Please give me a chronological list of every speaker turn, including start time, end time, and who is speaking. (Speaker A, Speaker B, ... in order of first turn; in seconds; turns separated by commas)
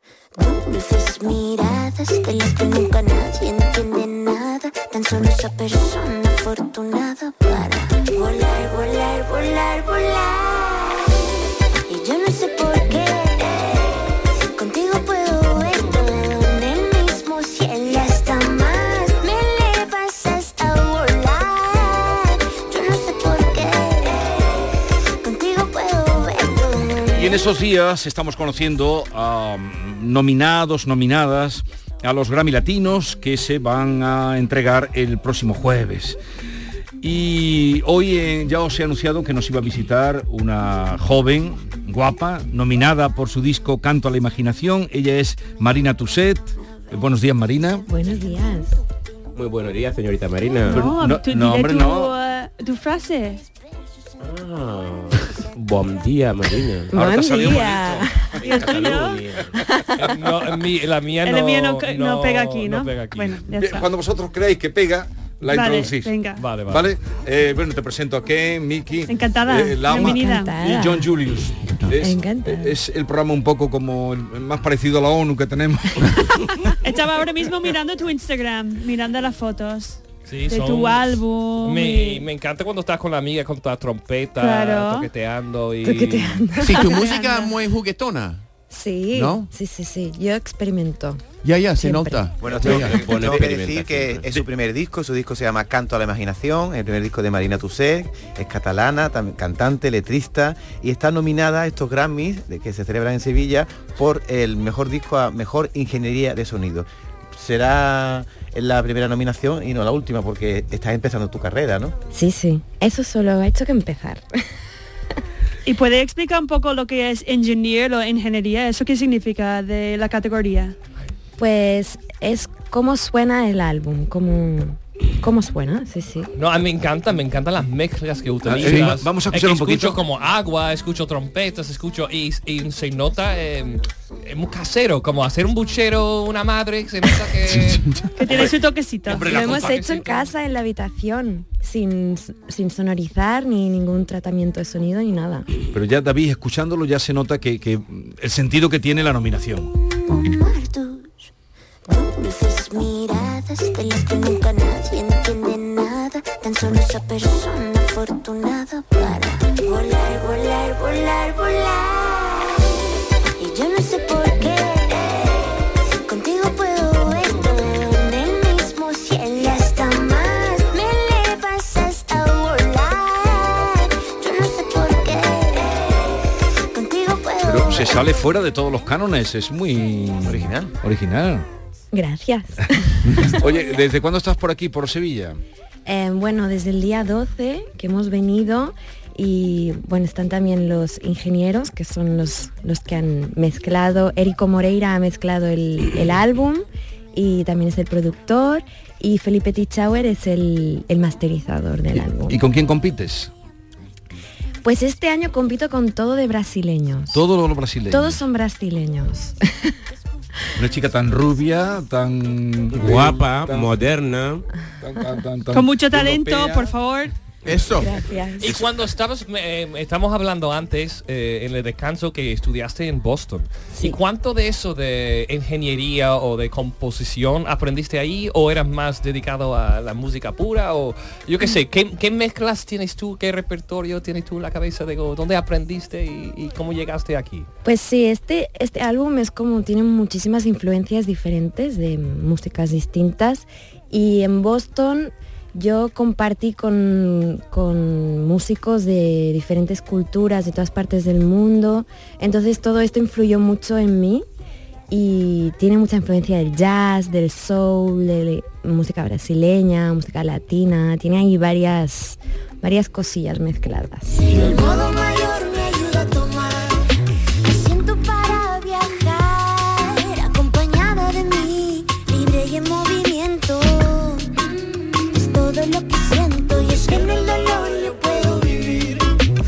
Speaker A: 0.3-11.3, Speaker A: 11.9-27.4, Speaker B: 27.1-36.2, Speaker B: 37.0-47.9, Speaker C: 47.9-48.8, Speaker D: 49.4-50.9, Speaker E: 50.7-53.4, Speaker B: 50.7-52.1, Speaker D: 54.2-56.9, Speaker C: 56.9-58.3, Speaker B: 56.9-58.6, Speaker D: 58.4-59.5, Speaker E: 58.4-59.2, Speaker C: 59.5-59.8, Speaker F: 60.0-63.4, Speaker E: 61.2-63.9, Speaker B: 63.5-76.2, Speaker E: 65.5-66.4, Speaker F: 66.4-66.9, Speaker E: 69.1-70.5, Speaker C: 69.9-71.1, Speaker C: 71.9-72.8, Speaker E: 76.8-82.2, Speaker F: 80.2-86.4, Speaker E: 84.4-85.1, Speaker C: 85.8-86.9, Speaker G: 86.6-88.4, Speaker E: 86.7-87.5, Speaker C: 88.7-91.2, Speaker G: 89.1-89.5, Speaker G: 91.4-93.0, Speaker C: 91.8-92.2, Speaker H: 92.4-112.0, Speaker D: 92.5-94.2, Speaker C: 112.1-114.3, Speaker E: 115.7-120.7, Speaker C: 121.4-126.3, Speaker F: 126.3-137.8, Speaker B: 128.4-130.0, Speaker E: 138.2-139.4, Speaker B: 139.1-139.9, Speaker F: 139.1-140.2, Speaker C: 139.3-145.5, Speaker B: 145.7-149.7, Speaker A: 149.9-151.3, Speaker A: 151.9-162.8, Speaker A: 163.4-178.2, Speaker B: 177.4-181.4, Speaker H: 180.2-180.7, Speaker C: 181.9-183.3, Speaker B: 183.0-185.4, Speaker C: 185.8-202.4, Speaker B: 201.9-203.3, Speaker C: 204.6-207.2, Speaker B: 207.1-208.2, Speaker C: 207.9-209.4, Speaker B: 210.6-213.8, Speaker D: 212.7-214.4, Speaker B: 214.8-216.7, Speaker E: 215.5-217.1, Speaker G: 217.4-217.9, Speaker C: 217.7-218.7, Speaker F: 218.4-237.5, Speaker C: 223.7-224.0, Speaker C: 237.6-254.2, Speaker C: 254.9-264.3, Speaker A: 264.2-266.8, Speaker A: 267.4-279.0